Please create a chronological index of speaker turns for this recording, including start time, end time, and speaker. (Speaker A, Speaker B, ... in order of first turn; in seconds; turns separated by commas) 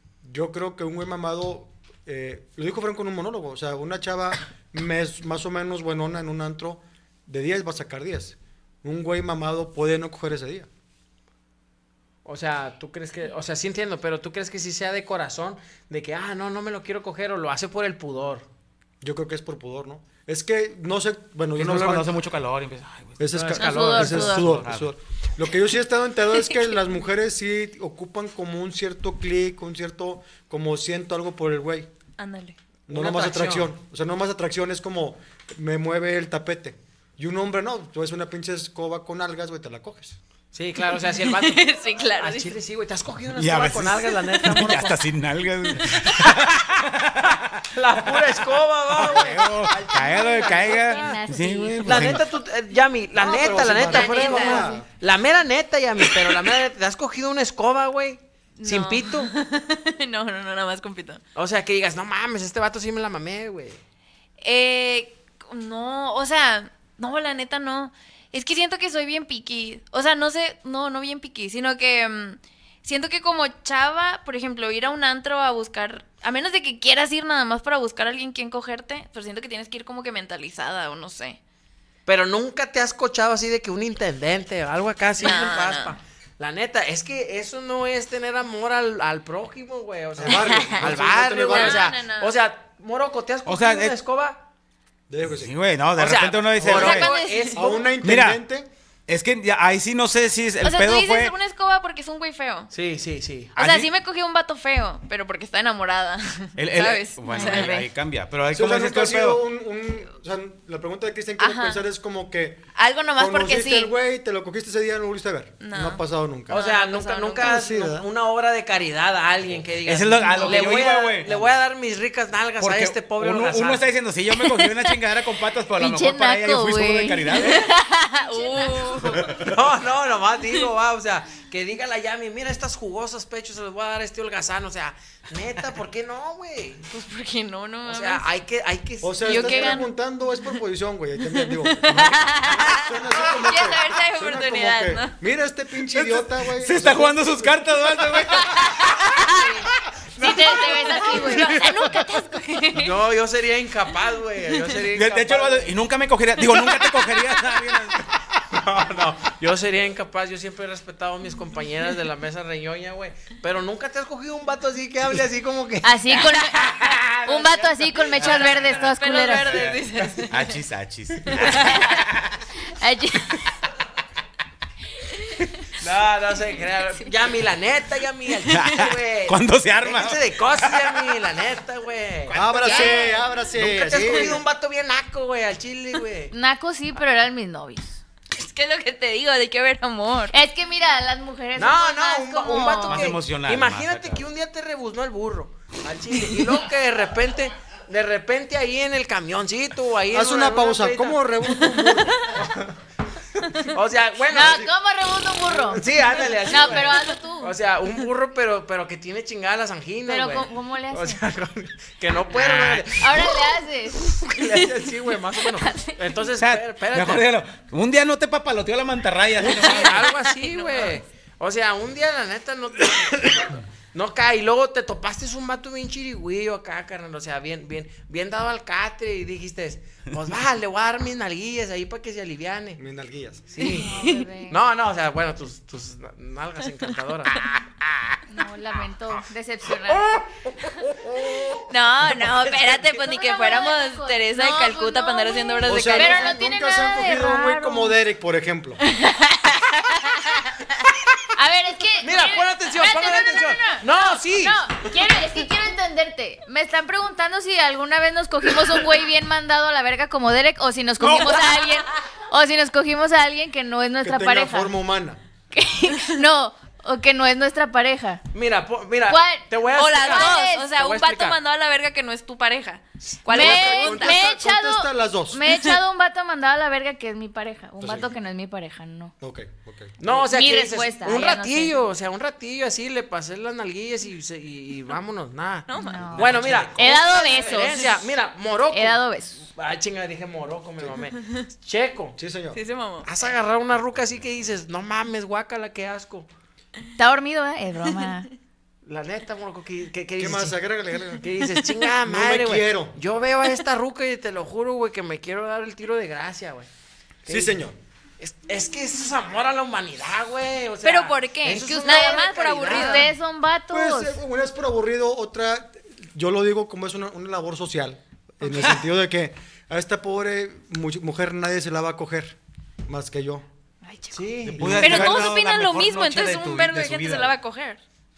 Speaker A: 0.2-10.7, Speaker B: 12.2-18.4, Speaker A: 19.0-22.2, Speaker C: 21.6-24.9, Speaker A: 23.2-31.9, Speaker B: 23.3-24.2, Speaker D: 23.5-24.6, Speaker E: 32.2-32.6, Speaker A: 32.9-40.2, Speaker B: 32.9-33.7, Speaker B: 40.5-45.0, Speaker E: 41.2-42.5, Speaker C: 43.3-47.6, Speaker B: 47.7-51.2, Speaker C: 48.9-52.2, Speaker D: 50.0-52.2, Speaker B: 51.8-59.3, Speaker A: 53.1-54.9, Speaker E: 53.8-54.7, Speaker D: 54.0-54.5, Speaker E: 58.6-61.2, Speaker B: 61.3-63.8, Speaker E: 64.4-81.4, Speaker B: 82.0-94.4, Speaker E: 85.2-86.0, Speaker A: 90.2-91.9, Speaker E: 90.3-90.8, Speaker E: 91.5-92.3, Speaker C: 93.5-94.0, Speaker A: 95.1-95.5, Speaker C: 95.3-97.1, Speaker B: 96.0-97.9, Speaker A: 96.6-96.9, Speaker E: 96.6-97.6, Speaker A: 97.5-98.7, Speaker C: 98.0-98.4, Speaker C: 99.1-101.3, Speaker E: 100.6-102.7, Speaker B: 102.7-103.5, Speaker E: 103.5-107.9, Speaker C: 103.6-103.9, Speaker C: 106.6-109.4, Speaker B: 107.4-107.7, Speaker A: 108.5-112.6, Speaker E: 111.4-111.8, Speaker E: 112.8-113.9, Speaker A: 113.2-116.6, Speaker E: 115.6-117.7, Speaker B: 116.5-123.8, Speaker A: 117.4-118.1, Speaker C: 119.8-121.4, Speaker E: 120.2-120.8, Speaker C: 122.6-127.7, Speaker E: 124.5-124.9, Speaker D: 125.8-127.4, Speaker E: 126.0-129.4, Speaker D: 128.3-128.9, Speaker C: 129.1-129.6, Speaker B: 129.3-136.9, Speaker E: 136.9-138.2, Speaker B: 137.8-139.8, Speaker A: 139.0-147.5, Speaker E: 139.2-139.9, Speaker E: 141.4-145.1, Speaker C: 146.0-148.9, Speaker E: 148.4-149.6, Speaker D: 149.3-149.7, Speaker D: 150.2-151.6, Speaker E: 150.2-152.9, Speaker B: 150.2-151.1, Speaker C: 151.5-152.0, Speaker B: 152.7-155.7, Speaker C: 154.9-158.2, Speaker B: 158.5-168.8, Speaker D: 165.8-169.6, Speaker E: 168.8-170.6, Speaker C: 170.3-172.4, Speaker E: 171.3-172.0, Speaker E: 175.1-175.4, Speaker B: 175.8-183.0, Speaker C: 178.5-181.2, Speaker A: 182.3-184.4, Speaker E: 182.5-183.2, Speaker B: 183.5-186.3, Speaker D: 186.3-188.0, Speaker E: 188.3-190.3, Speaker D: 190.3-193.1, Speaker B: 191.6-201.2, Speaker C: 192.9-194.2, Speaker A: 200.1-202.5, Speaker B: 203.7-204.7, Speaker D: 204.3-205.8, Speaker B: 205.5-213.4, Speaker D: 206.4-207.5, Speaker D: 210.1-211.2, Speaker D: 213.0-214.1, Speaker B: 214.1-217.3, Speaker C: 216.4-220.1, Speaker B: 219.4-232.8, Speaker E: 220.2-221.0, Speaker A: 232.8-233.4, Speaker B: 233.5-237.5, Speaker D: 233.6-234.6, Speaker E: 233.6-234.1, Speaker D: 238.3-240.2, Speaker E: 241.7-246.4, Speaker B: 242.2-242.8, Speaker D: 242.9-247.9, Speaker A: 245.7-248.8, Speaker E: 249.4-250.5, Speaker D: 251.3-264.7, Speaker B: 252.0-254.8, Speaker C: 261.0-261.3, Speaker E: 261.1-261.4, Speaker A: 264.0-265.2, Speaker D: 265.5-268.2, Speaker B: 268.3-271.4, Speaker D: 269.1-270.7, Speaker E: 269.7-274.3, Speaker B: 273.0-273.5, Speaker D: 273.3-279.1, Speaker A: 273.3-275.4, Speaker A: 277.8-278.1, Speaker A: 279.2-279.9, Speaker B: 280.0-292.2, Speaker D: 280.1-281.8, Speaker E: 285.7-286.2, Speaker D: 285.7-287.9, Speaker C: 286.1-287.0, Speaker D: 288.7-289.4, Speaker A: 292.1-292.6, Speaker E: 292.5-293.1, Speaker B: 293.0-296.3, Speaker D: 297.0-298.3, Speaker E: 297.9-298.3, Speaker B: 298.9-300.6, Speaker A: 300.2-301.3, Speaker B: 301.2-306.7, Speaker A: 302.0-302.9, Speaker B: 307.2-307.6, Speaker A: 307.3-307.8, Speaker B: 308.2-313.1, Speaker E: 310.8-313.1, Speaker D: 312.6-314.2, Speaker A: 313.7-323.4, Speaker B: 324.1-325.0, Speaker C: 324.4-327.3, Speaker A: 324.6-325.1, Speaker E: 324.8-327.8